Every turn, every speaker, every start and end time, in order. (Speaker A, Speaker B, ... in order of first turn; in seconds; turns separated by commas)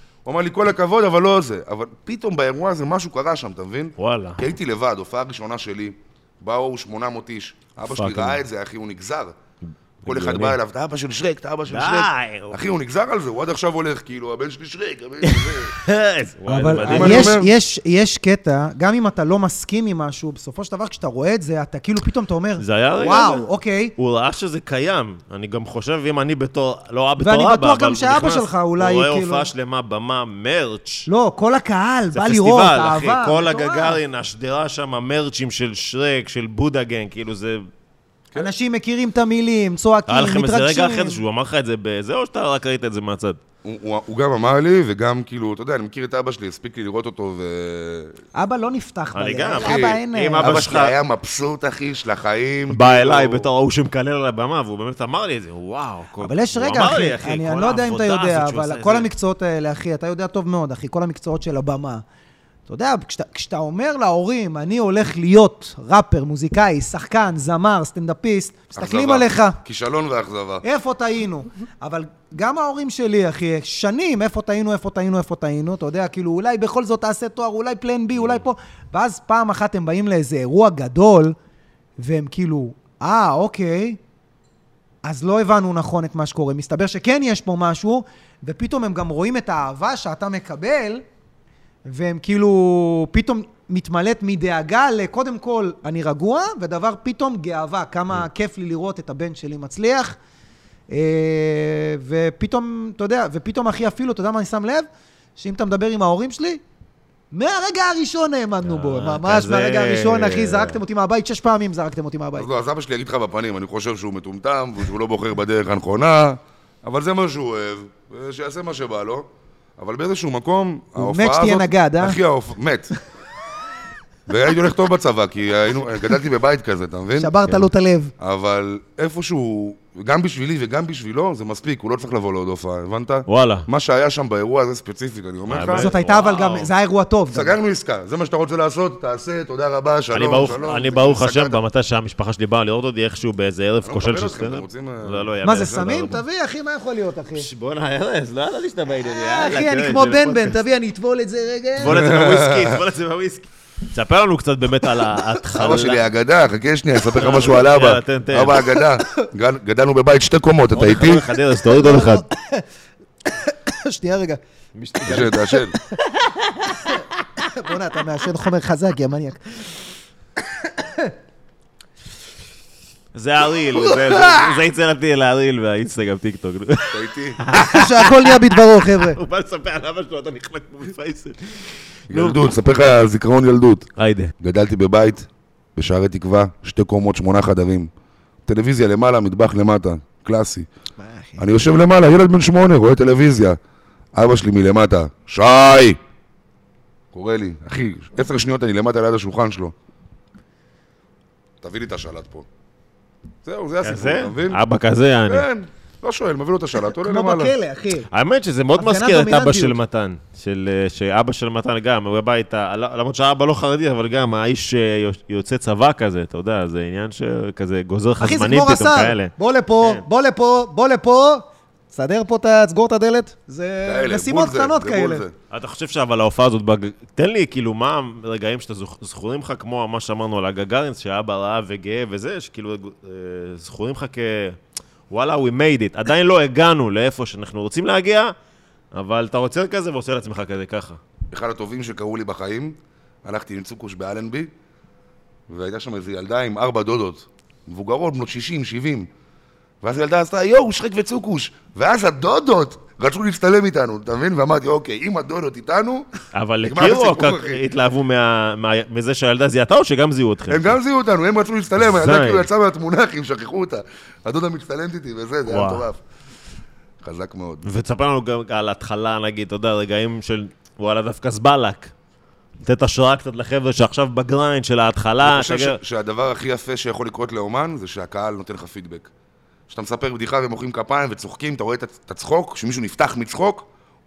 Speaker A: 0.2-9.3, Speaker B: 4.0-4.5, Speaker B: 7.9-8.4, Speaker B: 10.0-10.6, Speaker A: 10.1-15.8, Speaker B: 11.7-12.6, Speaker B: 15.2-17.4, Speaker C: 16.5-23.9, Speaker A: 16.8-17.5, Speaker B: 22.6-31.1, Speaker C: 27.2-29.5, Speaker C: 31.1-34.0, Speaker B: 32.1-37.6, Speaker C: 38.4-41.2, Speaker B: 40.1-43.4, Speaker A: 43.6-48.2, Speaker C: 48.4-50.7, Speaker B: 49.1-51.0, Speaker A: 49.6-53.5, Speaker B: 52.7-59.1, Speaker C: 56.2-62.0, Speaker C: 62.7-69.6, Speaker A: 68.8-70.6, Speaker C: 70.6-81.4, Speaker C: 82.0-84.0, Speaker C: 85.0-91.0, Speaker C: 91.9-100.2, Speaker C: 100.9-106.6, Speaker C: 107.3-112.5, Speaker B: 108.6-110.8, Speaker A: 112.4-122.9, Speaker C: 121.0-122.2, Speaker A: 124.3-127.4, Speaker C: 127.2-128.1, Speaker A: 128.2-135.9, Speaker B: 133.3-133.7, Speaker B: 135.5-136.7, Speaker C: 135.7-137.6, Speaker A: 137.3-141.6, Speaker B: 140.1-146.2, Speaker A: 143.8-145.3, Speaker C: 145.4-147.5, Speaker B: 147.3-150.6, Speaker C: 149.0-152.1, Speaker B: 151.8-156.0, Speaker A: 151.8-152.8, Speaker A: 155.5-161.2, Speaker B: 157.1-158.6, Speaker B: 160.7-162.2, Speaker C: 161.6-162.7, Speaker C: 163.3-164.4, Speaker B: 164.8-165.4, Speaker A: 165.0-165.8, Speaker C: 165.2-165.6, Speaker C: 166.6-169.4, Speaker C: 170.5-171.1, Speaker B: 173.1-182.5, Speaker C: 173.7-174.5, Speaker A: 176.9-177.4, Speaker C: 177.5-179.2, Speaker A: 182.1-187.9, Speaker B: 184.0-184.3, Speaker A: 188.5-190.7, Speaker C: 191.0-191.4, Speaker A: 191.4-193.6, Speaker A: 194.1-196.0, Speaker A: 197.1-199.7, Speaker A: 201.6-202.5, Speaker A: 203.4-204.6, Speaker B: 203.8-205.5, Speaker A: 205.3-207.5, Speaker C: 207.0-208.1, Speaker B: 208.1-220.0, Speaker C: 208.8-209.8, Speaker C: 218.2-225.2, Speaker A: 223.8-225.3, Speaker B: 225.5-234.6, Speaker B: 235.1-238.3, Speaker B: 238.9-241.0, Speaker A: 241.3-244.5, Speaker A: 245.5-249.1, Speaker A: 249.8-256.1, Speaker B: 256.3-260.8, Speaker A: 256.6-257.6, Speaker A: 260.5-266.0, Speaker B: 261.9-262.5, Speaker B: 265.5-265.9, Speaker A: 267.0-267.7, Speaker B: 267.6-271.9, Speaker B: 272.6-275.8, Speaker A: 275.2-279.1, Speaker A: 279.7-283.7